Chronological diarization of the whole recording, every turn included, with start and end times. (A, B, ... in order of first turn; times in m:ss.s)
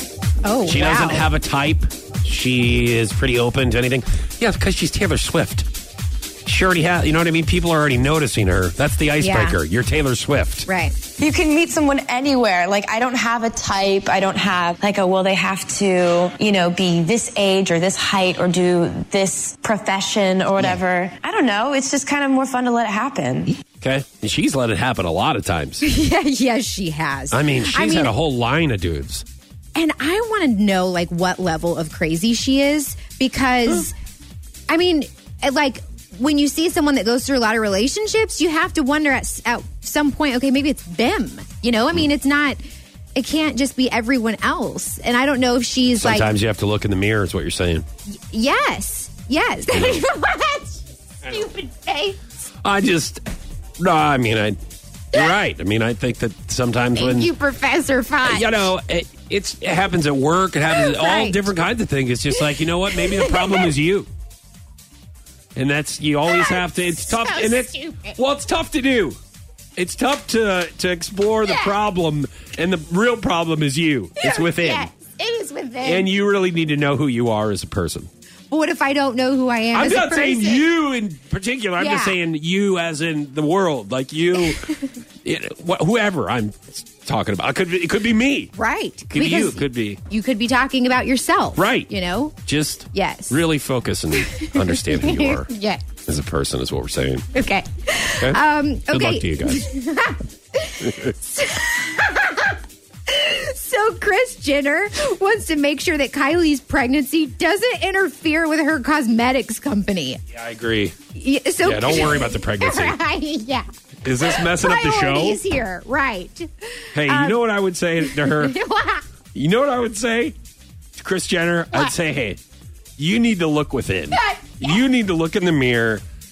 0:00.4-0:01.3 A
0:00.6-0:05.7 B
0:06.4-0:10.7 B
0:09.2-0:09.6 A
0:10.7-0:11.0 A
0:11.2-0:23.6 C
0:23.8-0:25.8 B
0:25.8-0:28.1 A
0:27.3-0:29.2 B
0:29.7-0:33.9 A
0:34.7-0:42.6 A
0:43.1-0:46.3 A
0:46.0-0:47.8 B
0:48.3-0:52.2 A
0:49.7-0:50.0 B
0:52.6-0:53.2 B
0:53.8-0:54.6 B
0:55.1-0:57.3 B
0:56.9-0:58.7 A
0:58.2-1:04.1 B
1:00.6-1:01.4 A
1:02.3-1:03.7 A
1:05.6-1:09.2 B
1:06.2-1:08.2 A
1:09.8-1:14.9 B
1:11.4-1:11.8 A
1:14.2-1:16.1 A
1:15.8-1:18.1 B
1:18.5-1:20.7 A
1:19.7-1:28.5 B
1:21.8-1:22.2 A
1:28.6-1:32.4 A
1:29.1-1:30.0 B
1:31.6-1:31.9 B
1:32.4-1:35.5 B
1:32.9-1:33.4 A
1:34.2-1:35.8 A
1:36.0-1:37.3 B
1:37.3-1:42.6 A
1:38.2-1:39.6 B
1:40.8-1:41.1 B
1:43.1-1:50.2 A
1:50.3-1:50.9 B
1:51.1-1:57.4 A
1:51.6-1:53.0 B
1:54.0-1:55.4 B
1:56.9-1:58.5 B
1:58.0-1:59.0 A
1:59.3-2:00.3 B
2:01.0-2:02.4 B
2:03.0-2:06.0 B
2:04.1-2:04.8 A